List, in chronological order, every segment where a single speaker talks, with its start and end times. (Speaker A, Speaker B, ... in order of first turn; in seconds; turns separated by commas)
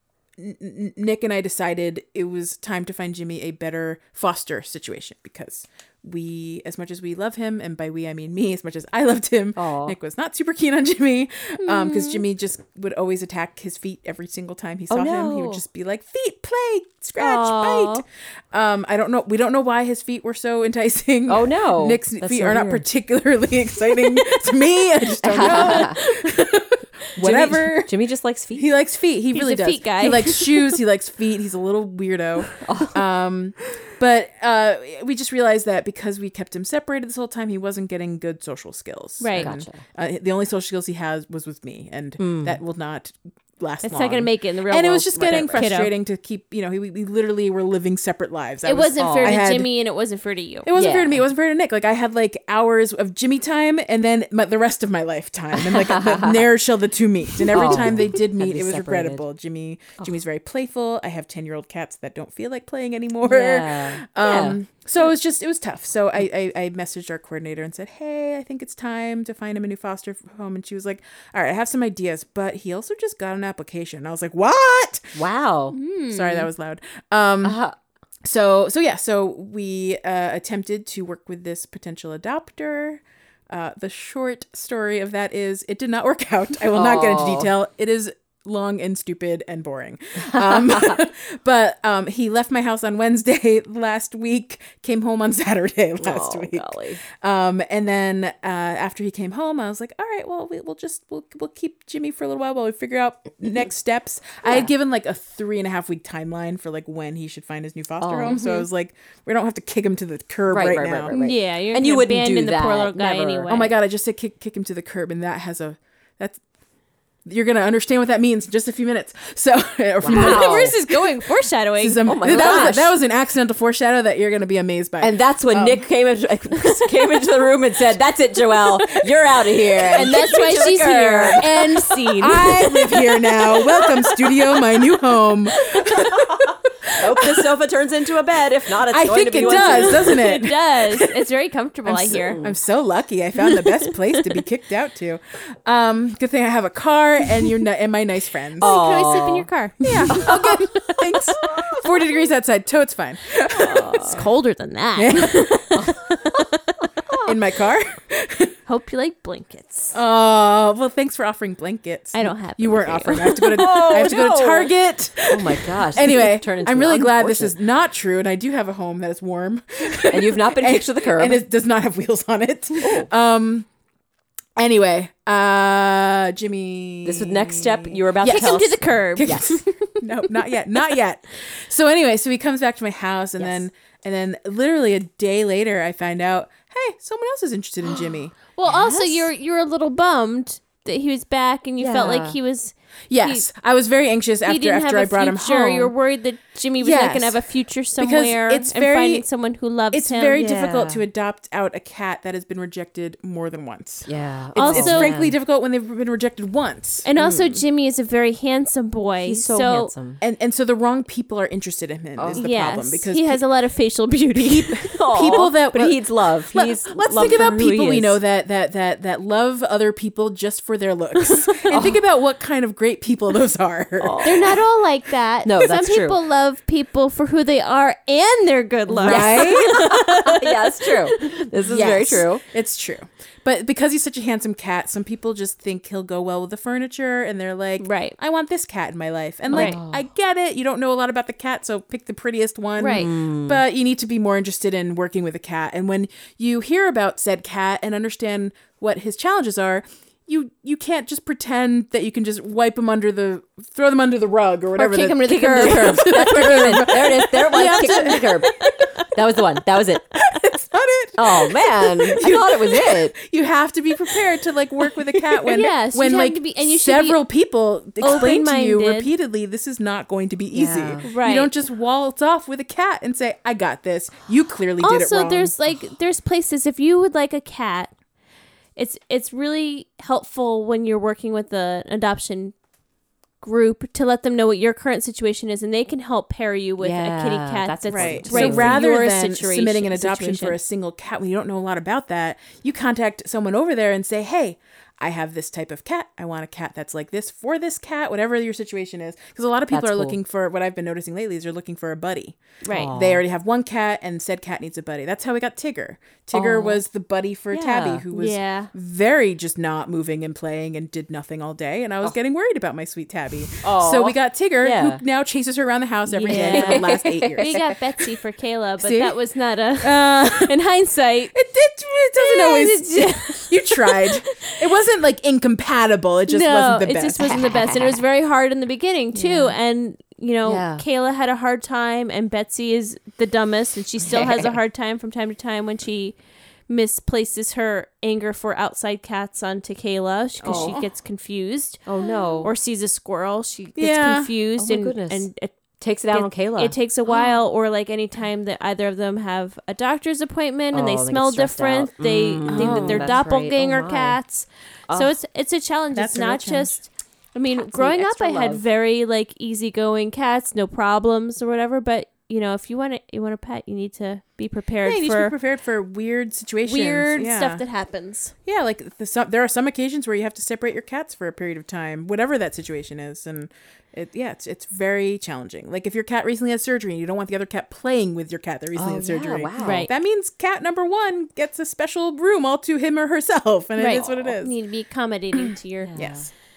Speaker A: 0.4-27.9, Speaker B: 9.6-10.0, Speaker C: 11.6-12.2, Speaker B: 14.9-15.6, Speaker C: 17.2-18.0, Speaker B: 21.3-22.9, Speaker B: 25.2-26.0, Speaker C: 25.4-26.3, Speaker B: 27.2-28.7, Speaker A: 28.5-49.7, Speaker C: 29.3-30.8, Speaker B: 32.6-33.0, Speaker C: 39.2-39.5, Speaker B: 39.3-39.8, Speaker B: 42.2-42.6, Speaker C: 43.8-45.9, Speaker B: 45.4-45.6, Speaker C: 48.6-50.7, Speaker B: 49.0-49.4, Speaker A: 50.6-75.2, Speaker B: 50.7-51.2, Speaker B: 55.5-56.5, Speaker B: 57.5-59.2, Speaker B: 63.2-64.6, Speaker B: 75.2-75.8, Speaker C: 75.7-76.5, Speaker A: 76.1-77.6, Speaker B: 77.4-77.8, Speaker A: 78.2-111.2, Speaker B: 86.7-87.5, Speaker B: 90.4-91.0, Speaker B: 96.0-97.0, Speaker B: 108.0-108.5, Speaker C: 108.3-108.7, Speaker B: 110.5-113.6, Speaker C: 111.1-113.7, Speaker A: 113.5-116.4, Speaker A: 117.3-121.1, Speaker B: 120.0-120.7, Speaker C: 120.1-122.8, Speaker A: 121.8-125.8, Speaker B: 122.0-122.9, Speaker B: 125.0-134.8, Speaker A: 128.8-130.3, Speaker C: 129.9-132.5, Speaker A: 132.2-137.5, Speaker B: 135.6-140.4, Speaker A: 138.8-141.0, Speaker C: 139.4-142.4, Speaker A: 141.9-148.7, Speaker B: 142.0-142.6, Speaker B: 148.6-149.5, Speaker C: 148.6-150.6, Speaker A: 149.8-154.2, Speaker B: 150.1-152.0, Speaker C: 153.5-156.4, Speaker B: 153.7-154.2, Speaker A: 155.0-155.9, Speaker B: 155.7-156.5, Speaker B: 157.1-157.3, Speaker A: 157.2-158.6, Speaker C: 158.7-159.9, Speaker A: 159.9-173.7, Speaker C: 162.1-163.7, Speaker B: 163.4-164.7, Speaker B: 165.3-167.6, Speaker B: 170.1-171.4, Speaker B: 172.8-173.1, Speaker A: 174.6-178.6, Speaker B: 177.0-179.6, Speaker C: 178.2-180.1, Speaker A: 179.2-188.6, Speaker C: 188.5-193.5, Speaker B: 188.7-189.2, Speaker B: 191.8-192.4, Speaker A: 193.1-195.9, Speaker C: 194.4-200.4, Speaker A: 196.8-197.4, Speaker A: 198.0-199.3, Speaker A: 199.9-207.1, Speaker B: 200.3-201.1, Speaker B: 204.1-205.4, Speaker C: 204.6-205.1, Speaker C: 207.1-209.9, Speaker B: 207.2-207.6, Speaker B: 209.2-210.2, Speaker A: 210.2-213.4, Speaker B: 212.2-212.7, Speaker C: 212.4-215.0, Speaker A: 214.6-224.6, Speaker B: 214.8-218.2, Speaker C: 221.5-221.8, Speaker B: 224.0-224.6, Speaker C: 224.2-231.4, Speaker B: 225.4-226.2, Speaker B: 228.9-232.4, Speaker A: 229.0-229.8, Speaker A: 231.7-258.8, Speaker C: 237.8-238.2, Speaker B: 239.5-240.1, Speaker C: 239.5-239.8, Speaker C: 242.8-243.1, Speaker B: 242.9-243.6, Speaker B: 254.8-260.1, Speaker C: 255.5-255.8, Speaker A: 260.1-275.5, Speaker B: 261.2-263.1, Speaker C: 265.5-267.2, Speaker C: 268.0-269.1, Speaker B: 270.5-271.0, Speaker C: 271.0-271.5, Speaker C: 274.8-277.9, Speaker C: 278.8-282.6, Speaker C: 283.4-290.6, Speaker B: 286.8-288.8, Speaker A: 287.9-302.4, Speaker B: 299.7-300.2, Speaker C: 302.6-302.9, Speaker B: 302.7-303.2, Speaker A: 302.9-317.8, Speaker B: 306.3-306.8, Speaker B: 307.5-308.1, Speaker C: 308.1-308.7, Speaker B: 313.6-315.0, Speaker C: 316.1-321.3, Speaker B: 316.2-317.6, Speaker A: 318.8-319.2, Speaker A: 319.8-320.6, Speaker A: 321.3-327.5, Speaker C: 322.2-324.6, Speaker C: 326.3-336.2, Speaker B: 327.2-328.0, Speaker B: 329.1-329.6, Speaker B: 330.4-330.8, Speaker B: 334.0-334.6, Speaker C: 336.7-341.8, Speaker B: 340.4-340.8, Speaker A: 340.4-340.8, Speaker B: 341.9-342.5, Speaker C: 342.4-345.6, Speaker A: 343.8-344.3, Speaker B: 344.6-345.3, Speaker B: 345.8-346.8, Speaker C: 346.1-365.4, Speaker B: 350.7-354.2, Speaker A: 352.5-353.2, Speaker B: 354.9-355.1, Speaker A: 355.9-356.9, Speaker B: 357.5-358.6, Speaker A: 364.8-367.6, Speaker C: 366.7-368.3, Speaker A: 368.4-384.5, Speaker B: 378.8-379.9, Speaker C: 379.6-379.9, Speaker C: 383.8-386.2, Speaker B: 385.8-386.3, Speaker A: 385.9-386.3